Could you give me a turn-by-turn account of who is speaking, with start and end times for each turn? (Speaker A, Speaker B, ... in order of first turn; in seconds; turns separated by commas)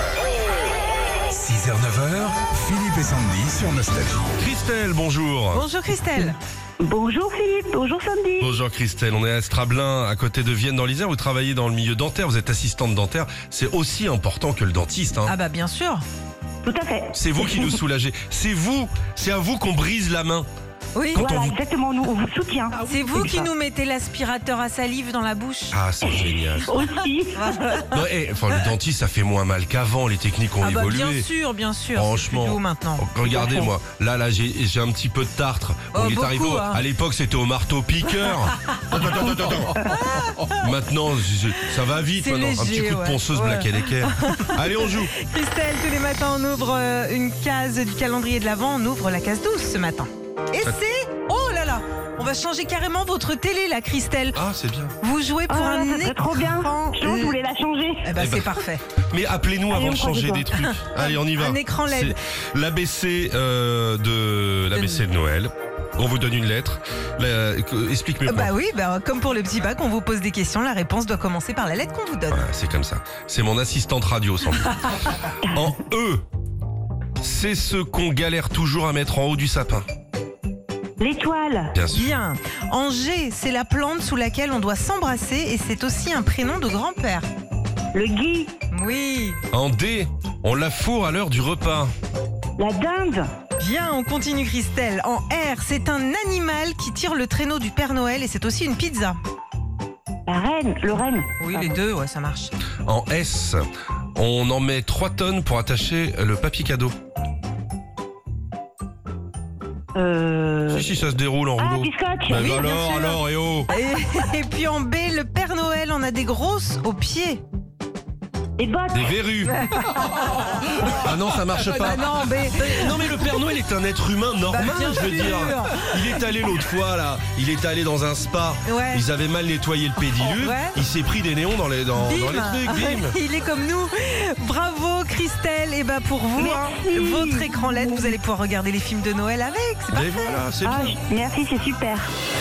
Speaker A: 1.3-4.2, Speaker B: 4.4-5.7, Speaker C: 5.5-6.4, Speaker D: 6.2-8.5, Speaker B: 8.4-15.3, Speaker C: 15.3-16.0, Speaker D: 16.6-17.8, Speaker B: 17.1-20.5, Speaker C: 20.9-21.2, Speaker B: 21.1-21.6, Speaker D: 21.1-23.5, Speaker C: 22.8-25.8, Speaker B: 25.7-26.7, Speaker D: 26.7-27.6, Speaker C: 27.3-28.7, Speaker B: 27.9-31.3, Speaker C: 30.6-33.0, Speaker B: 31.9-39.9, Speaker D: 33.2-33.7, Speaker C: 35.9-36.8, Speaker C: 39.8-40.7, Speaker B: 40.5-45.2, Speaker C: 42.2-54.4, Speaker B: 54.3-55.0, Speaker C: 55.0-57.4, Speaker D: 55.5-58.1, Speaker C: 58.0-58.8, Speaker B: 58.2-68.5, Speaker D: 59.7-60.5, Speaker C: 60.5-62.2, Speaker C: 64.7-65.0, Speaker C: 68.2-72.5, Speaker B: 72.3-76.2, Speaker B: 77.2-79.8, Speaker D: 81.0-81.7, Speaker B: 81.7-82.1, Speaker C: 81.9-87.3, Speaker D: 87.9-88.5, Speaker C: 88.7-89.4, Speaker B: 89.5-91.9, Speaker D: 92.6-93.3, Speaker C: 93.6-99.2, Speaker D: 100.3-101.8, Speaker C: 101.4-102.5, Speaker B: 102.9-103.6, Speaker B: 104.2-107.0, Speaker D: 110.0-110.9, Speaker B: 110.7-113.7, Speaker D: 111.6-112.7, Speaker C: 112.3-117.4, Speaker D: 118.6-119.2, Speaker B: 118.9-119.7, Speaker C: 119.5-120.9, Speaker B: 120.9-133.2, Speaker C: 121.7-123.3, Speaker C: 124.5-126.1, Speaker C: 128.7-129.0, Speaker C: 130.2-130.8, Speaker C: 132.0-140.4, Speaker D: 136.4-138.1, Speaker B: 139.9-141.0, Speaker D: 140.6-142.1